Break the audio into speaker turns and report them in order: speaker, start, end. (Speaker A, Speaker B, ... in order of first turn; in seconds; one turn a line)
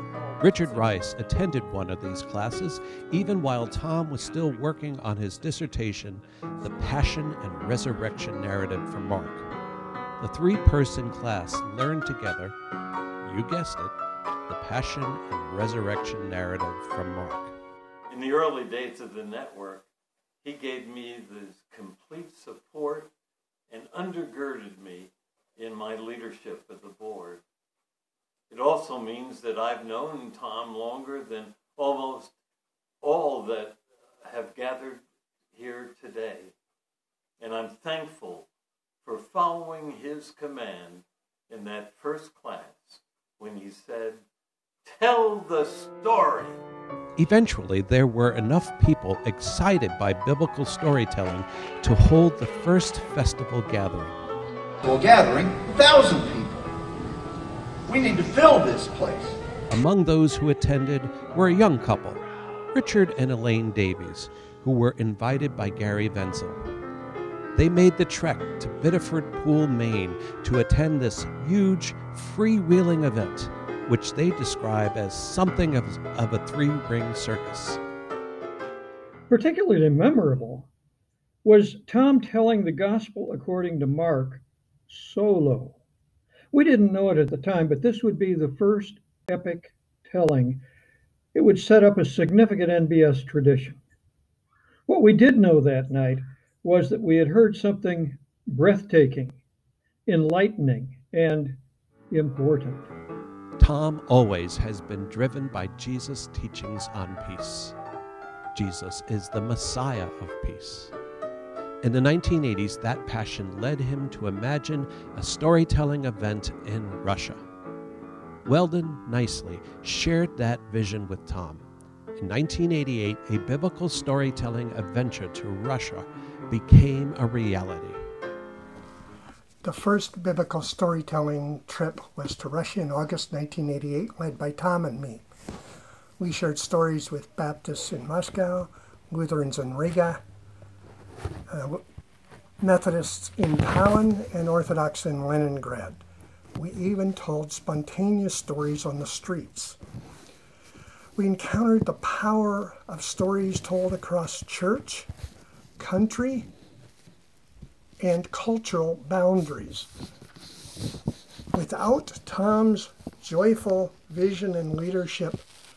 Speaker A: 0.4-9.5
Speaker A: 10.2-12.5
Speaker A: 13.2-13.9
Speaker A: 14.5-17.5
Speaker B: 18.1-19.8
Speaker B: 20.4-23.1
Speaker B: 23.7-27.4
Speaker B: 28.5-32.3
Speaker B: 33.0-35.0
Speaker B: 35.5-36.5
Speaker B: 37.4-38.5
Speaker B: 39.0-44.2
Speaker B: 44.8-46.5
Speaker A: 47.2-54.1
Speaker C: 54.8-56.7
Speaker C: 57.9-59.4
Speaker A: 59.7-62.2
Speaker A: 62.7-66.6
Speaker A: 67.5-77.8
Speaker D: 79.3-80.7
Speaker D: 81.4-85.7
Speaker D: 86.5-90.6
Speaker D: 91.3-93.8
Speaker D: 94.9-99.3
Speaker D: 100.1-101.6
Speaker D: 102.1-102.9
Speaker A: 103.6-107.7
Speaker A: 108.5-110.9
Speaker A: 111.8-117.4
Speaker A: 118.4-128.0
Speaker E: 129.6-135.2
Speaker E: 136.2-140.2
Speaker E: 141.5-141.8
Speaker E: 142.6-146.0
Speaker E: 146.6-149.8
Speaker E: 151.2-155.1
Speaker E: 155.8-156.5
Speaker E: 158.0-159.9
Speaker E: 161.5-165.4